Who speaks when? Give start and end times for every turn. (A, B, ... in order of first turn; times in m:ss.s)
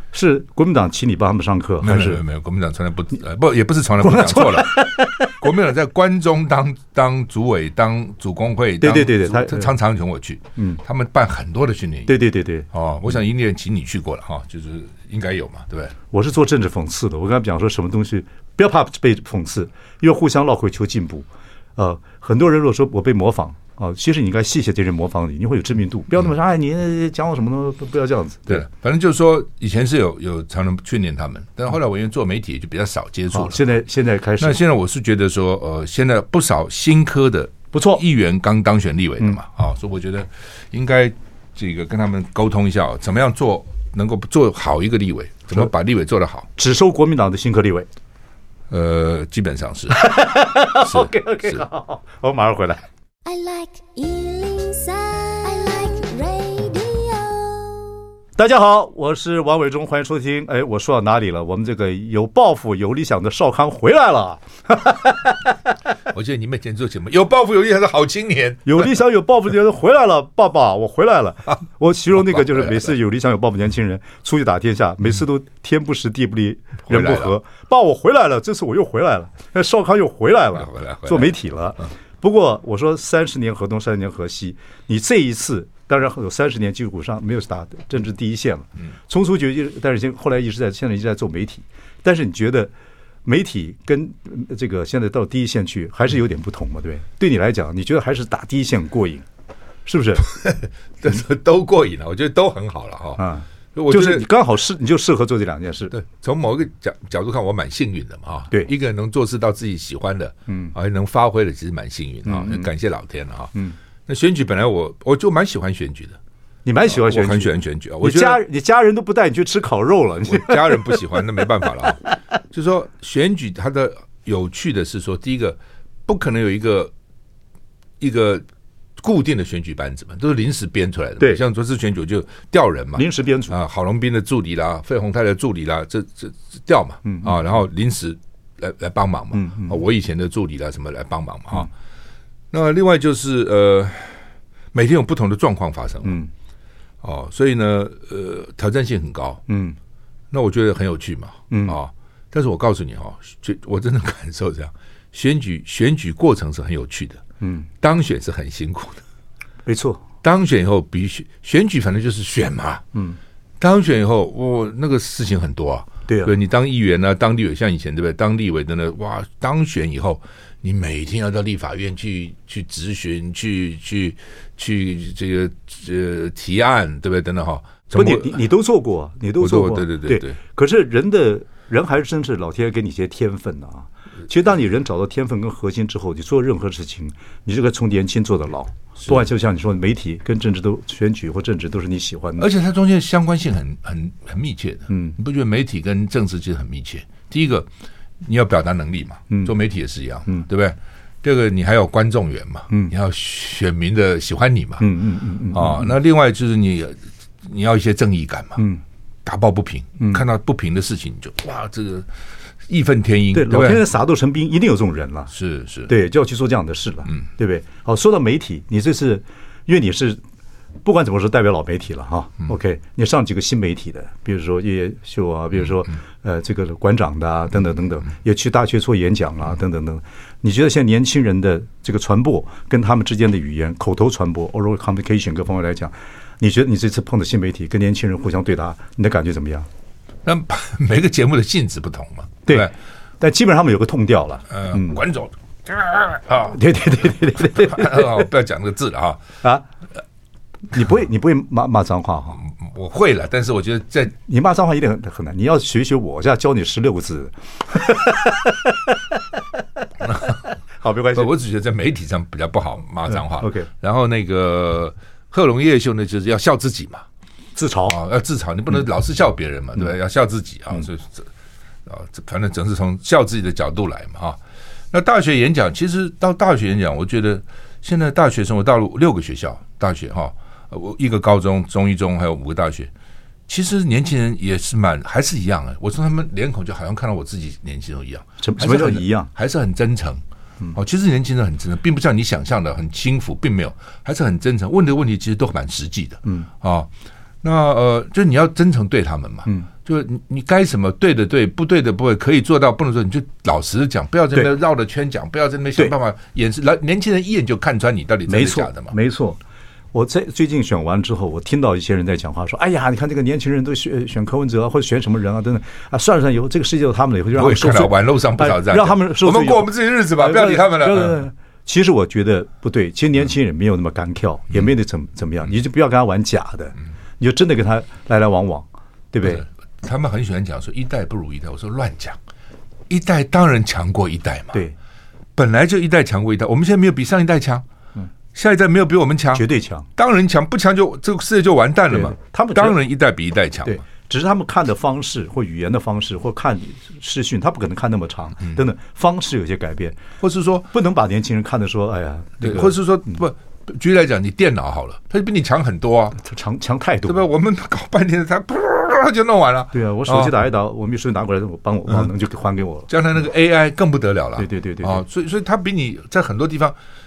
0:00.1-0:02.2 A
0:01.8-0:12.2 B
0:04.0-0:05.4 A
0:08.8-0:09.7 A
0:12.1-0:12.7 A
0:12.7-0:16.0 B
0:16.1-0:28.6 A
0:28.5-0:33.6 B
0:33.3-0:34.6 A
0:34.4-0:46.5 B
0:37.7-0:38.0 A
0:46.6-0:47.9 A
0:48.7-0:50.0 B
0:49.9-0:52.8 A
0:50.8-0:51.6 B
0:53.2-0:57.9 C
0:58.4-1:05.5 A
1:06.1-1:08.9 B
1:08.6-1:32.7 A
1:12.3-1:12.9 B
1:16.9-1:17.4 B
1:20.6-1:21.4 B
1:33.2-1:39.2 A
1:39.9-1:40.3 A
1:40.3-1:43.2 B
1:43.2-1:45.9 A
1:43.8-1:44.3 B
1:45.9-1:53.5 B
1:50.5-1:50.7 A
1:52.2-1:52.7 A
1:54.1-1:56.2 B
1:56.6-2:01.2 A
1:56.9-1:58.4 B
2:00.2-2:06.9 B
2:08.0-2:08.4 B
2:09.0-2:21.7 B
2:12.9-2:13.5 A
2:17.0-2:17.4 A
2:19.3-2:19.8 A
2:22.5-2:26.2 B
2:26.0-2:26.3 A
2:27.0-2:29.4 B
2:29.5-2:29.8 A
2:30.3-2:37.2 B
2:31.5-2:31.8 A
2:37.4-2:37.7 A
2:37.8-2:39.0 B
2:39.6-2:40.0 A
2:40.2-2:42.8 B
2:43.6-2:58.4 B
2:46.1-2:46.3 A
2:57.9-3:12.5 A
2:59.4-3:00.4 B
3:12.4-3:17.7 B
3:14.9-3:15.2 A
3:18.2-3:24.9 B
3:24.8-3:25.9 A
3:25.5-3:28.6 B
3:28.6-3:28.8 A
3:29.2-3:32.1 B
3:30.0-3:30.2 A
3:32.7-3:33.8 B
3:33.3-3:35.3 A
3:35.3-3:35.9 B
3:35.9-3:40.2 A
3:40.8-3:59.7 A
4:00.2-4:02.7 B
4:02.4-4:05.0 A
4:04.5-4:06.6 B
4:06.5-4:08.2 A
4:07.5-4:09.2 B
4:10.7-4:12.4 A
4:12.4-4:14.1 B
4:14.2-4:19.4 A
4:20.0-4:20.4 B
4:20.8-4:21.3 A
4:21.1-4:27.0 B
4:23.1-4:23.7 A
4:27.6-4:28.0 A
4:27.9-4:31.3 B
4:31.9-4:34.4 B
4:34.9-4:42.9 B
4:43.5-4:50.2 B
4:48.4-4:49.3 A
4:50.7-4:56.9 B
4:57.4-5:08.9 B
5:08.3-5:09.4 A
5:09.9-5:29.4 A
5:17.4-5:21.2 B
5:29.2-5:32.2 B
5:32.9-5:34.6 B
5:35.4-5:37.6 B
5:38.3-5:43.8 B
5:39.3-5:39.9 A
5:41.9-5:42.8 A
5:43.6-5:50.0 A
5:50.2-5:50.7 B
5:50.7-5:53.2 A
5:52.4-5:56.2 B
5:56.2-5:57.3 A
5:57.0-6:00.3 B
5:59.7-6:02.9 A
6:02.9-6:06.8 B
6:04.4-6:05.0 A